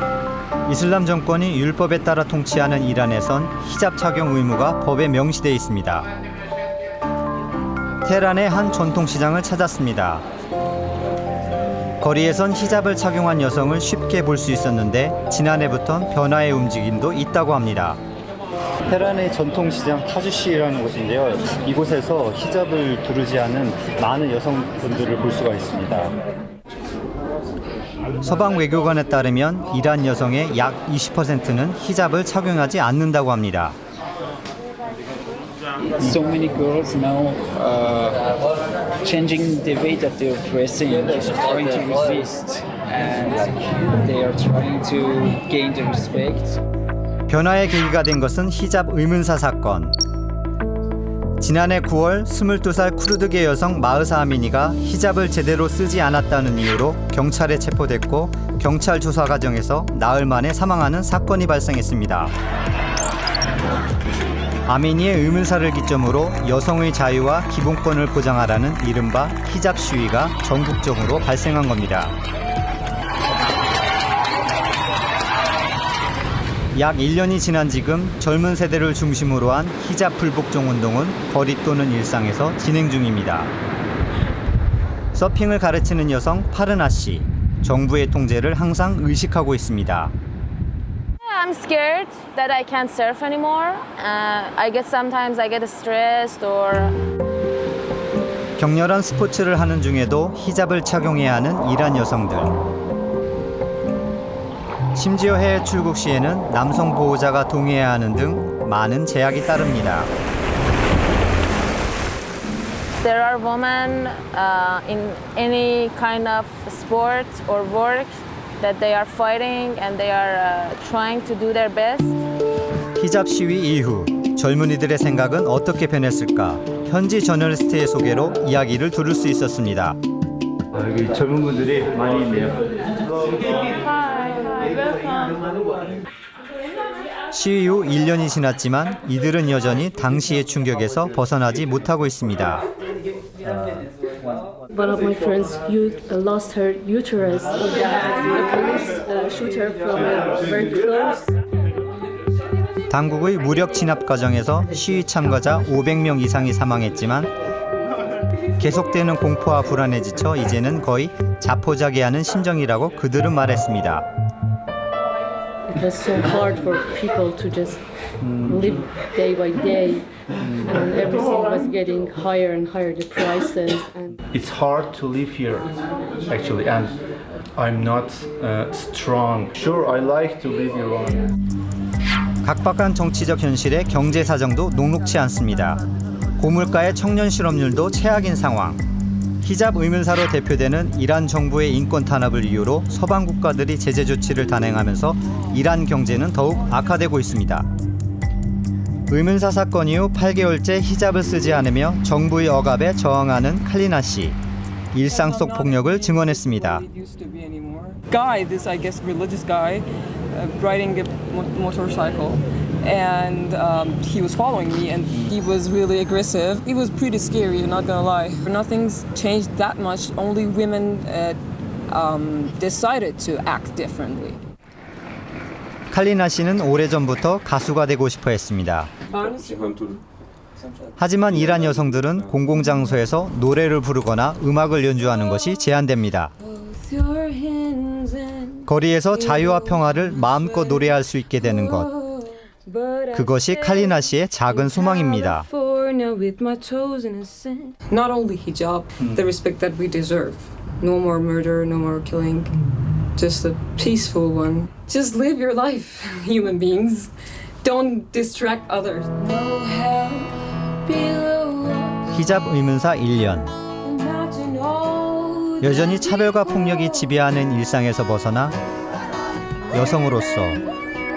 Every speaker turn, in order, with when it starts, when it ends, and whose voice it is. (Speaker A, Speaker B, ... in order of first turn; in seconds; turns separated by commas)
Speaker A: 0.7-6.1, Speaker A: 8.0-10.2, Speaker A: 12.0-18.0, Speaker A: 18.9-26.1, Speaker A: 28.2-33.8, Speaker B: 35.8-38.2, Speaker B: 39.0-46.6, Speaker A: 47.3-49.9, Speaker A: 51.4-62.3, Speaker A: 64.7-72.1, Speaker A: 76.7-83.5, Speaker A: 85.1-90.1, Speaker C: 91.3-96.9, Speaker A: 98.6-102.5, Speaker A: 104.9-110.1, Speaker C: 113.0-122.2, Speaker A: 123.0-130.0, Speaker A: 130.7-132.6, Speaker A: 137.3-142.6, Speaker D: 144.7-151.3, Speaker A: 152.9-157.3, Speaker A: 158.6-164.1, Speaker D: 165.7-167.8, Speaker E: 168.2-168.6, Speaker D: 168.4-170.0, Speaker D: 170.6-174.2, Speaker E: 174.3-175.7, Speaker E: 176.3-176.9, Speaker E: 177.6-181.2, Speaker A: 182.4-185.8, Speaker A: 186.4-188.8, Speaker A: 189.4-197.7, Speaker A: 199.1-204.4, Speaker A: 204.9-206.8, Speaker F: 205.0-224.4, Speaker A: 225.9-228.9, Speaker F: 229.1-230.0, Speaker A: 231.0-236.3, Speaker F: 236.4-252.5, Speaker A: 238.7-241.9, Speaker A: 243.1-245.4, Speaker F: 253.2-257.1, Speaker F: 257.6-262.1, Speaker A: 262.1-263.5, Speaker F: 263.8-267.0, Speaker A: 265.6-268.6, Speaker A: 269.7-270.6